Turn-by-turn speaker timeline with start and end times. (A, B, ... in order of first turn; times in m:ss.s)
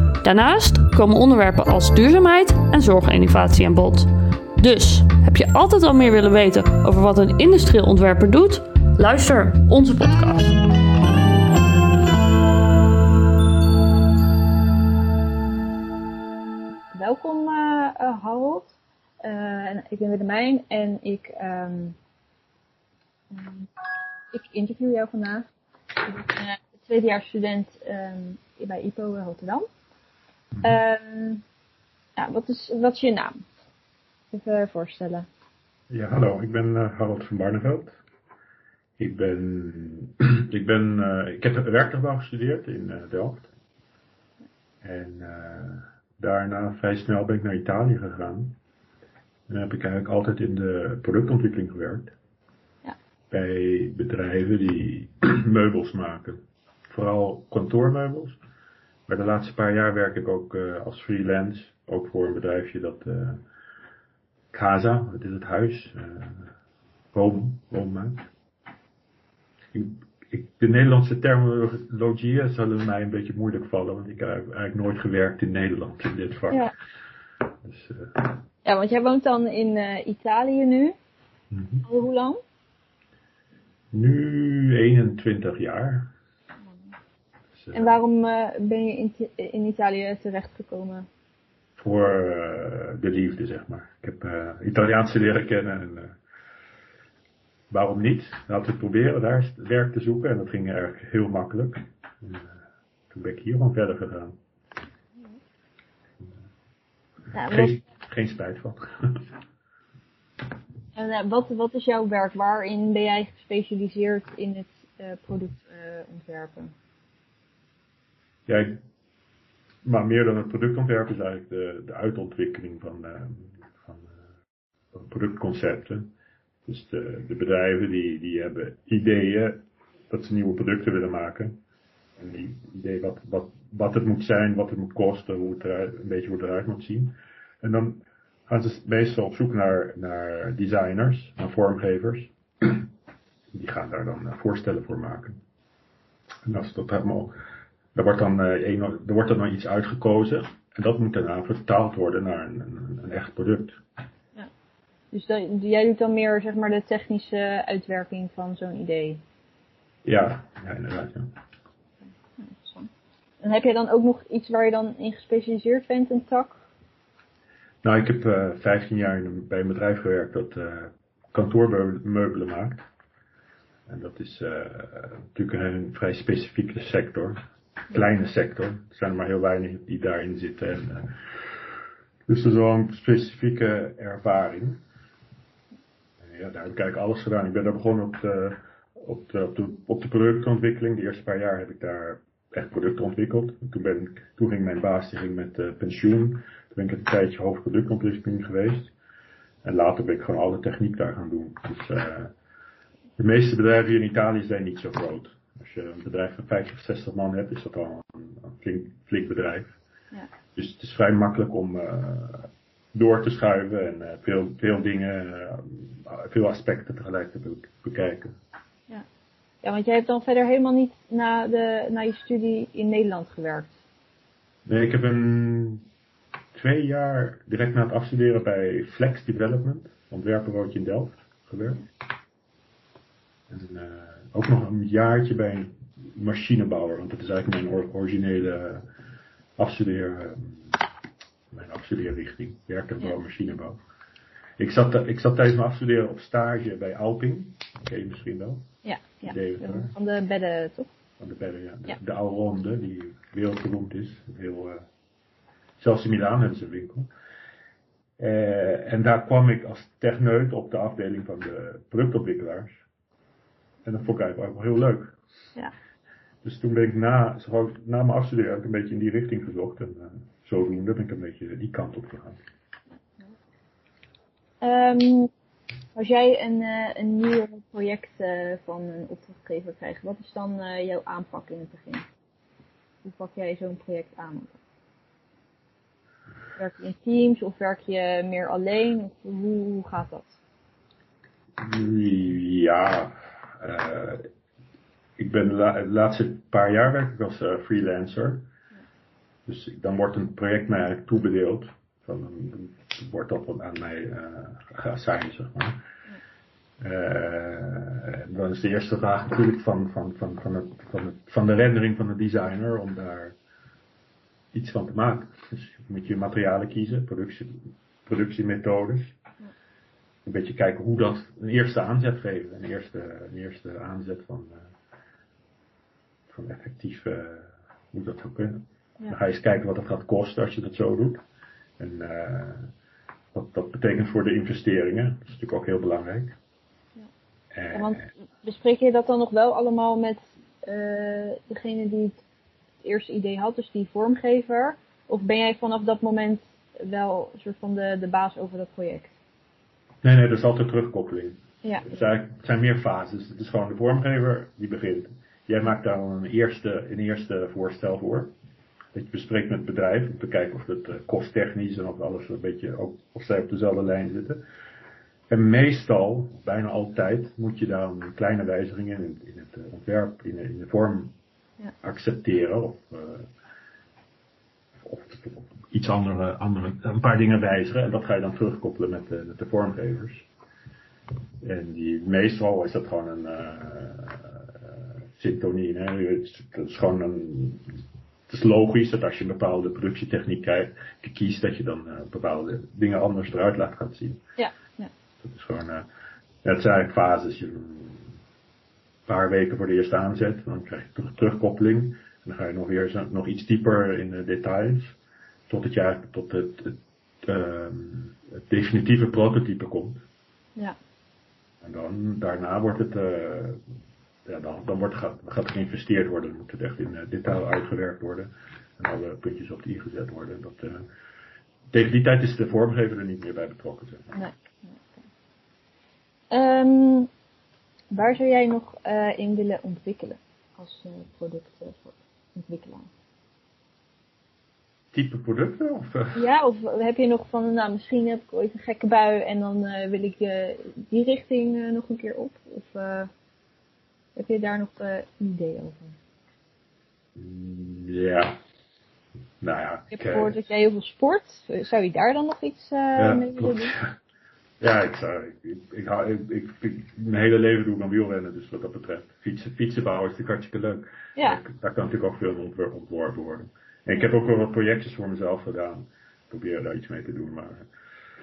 0:00.2-0:10.6 A
0:16.9-0:22.0 B
0:23.3-0:23.7 B
0:24.3-0:25.5 B
0:26.0-0:29.7 B
0:30.5-0:30.8 C
0:30.6-0:31.4 B
0:32.2-0:33.4 B
0:34.3-0:35.3 B
0:35.9-0:38.0 C
0:39.0-0:43.5 C
0:44.8-0:48.6 C
0:49.5-0:52.1 C
0:53.3-0:58.4 C
0:59.1-1:03.4 C
1:04.5-1:06.5 C
1:07.1-1:08.3 C
1:09.7-1:16.6 C
1:17.6-1:18.3 C
1:18.6-1:21.0 B
1:21.5-1:21.8 C
1:21.8-1:22.4 B
1:23.9-1:26.1 C
1:27.6-1:28.0 C
1:27.7-1:31.1 B
1:31.8-1:36.2 C
1:37.7-1:42.5 C
1:43.1-1:44.4 C
1:47.3-1:47.8 B
1:47.5-1:49.3 C
1:51.0-1:56.7 B
1:58.5-1:58.8 C
1:59.8-2:04.1 C
2:04.9-2:06.1 C
2:06.7-2:11.6 C
2:12.2-2:22.9 C
2:23.5-2:25.4 C
2:26.4-2:27.4 C
2:27.9-2:33.8 C
2:35.1-2:39.2 B
2:40.0-2:41.3 C
2:42.4-2:42.9 B
2:43.4-2:46.6 B
2:47.8-2:52.8 C
2:53.9-3:01.5 C
3:02.3-3:04.8 C
3:06.2-3:18.9 C
3:19.6-3:22.3 C
3:23.2-3:29.7 C
3:30.6-3:38.3 C
3:39.6-3:43.7 B
3:44.7-3:45.8 C
3:46.6-3:51.8 C
3:53.5-3:58.9 C
3:59.6-4:00.8 C
4:01.5-4:03.8 C
4:04.6-4:08.7 C
4:08.8-4:10.9 B
4:09.2-4:09.9 C
4:11.2-4:14.9 C
4:15.8-4:17.1 C
4:18.2-4:22.8 C
4:23.8-4:25.2 C
4:26.4-4:32.4 C
4:34.6-4:35.3 B
4:36.0-4:42.1 B
4:43.0-4:44.6 B
4:46.6-4:50.4 B
4:51.6-4:54.3 C
4:55.2-4:58.5 C
4:59.5-5:05.8 C
5:06.8-5:13.4 C
5:14.5-5:19.1 C
5:20.2-5:24.7 C
5:26.3-5:31.2 C
5:31.8-5:32.7 C
5:33.3-5:36.4 C
5:37.5-5:38.1 C
5:37.7-5:42.2 B
5:42.8-5:49.1 B
5:50.0-5:58.3 C
5:51.6-5:51.9 B
5:58.9-6:04.4 C
6:05.3-6:11.2 C
6:11.8-6:13.3 C
6:14.8-6:20.3 C
6:21.4-6:34.2 C
6:34.4-6:34.9 B
6:35.2-6:35.9 C
6:36.4-6:38.2 C
6:39.1-6:45.0 C
6:45.5-6:50.0 C
6:51.6-6:53.6 C
6:54.2-7:00.8 C
7:01.7-7:04.2 C
7:04.1-7:05.0 B
7:06.3-7:07.1 B
7:07.9-7:12.9 B
7:14.9-7:16.2 C
7:16.1-7:23.1 B
7:24.2-7:26.0 B
7:27.2-7:28.4 C
7:29.4-7:30.4 C
7:29.9-7:33.8 B
7:33.0-7:33.9 C
7:34.6-7:47.7 C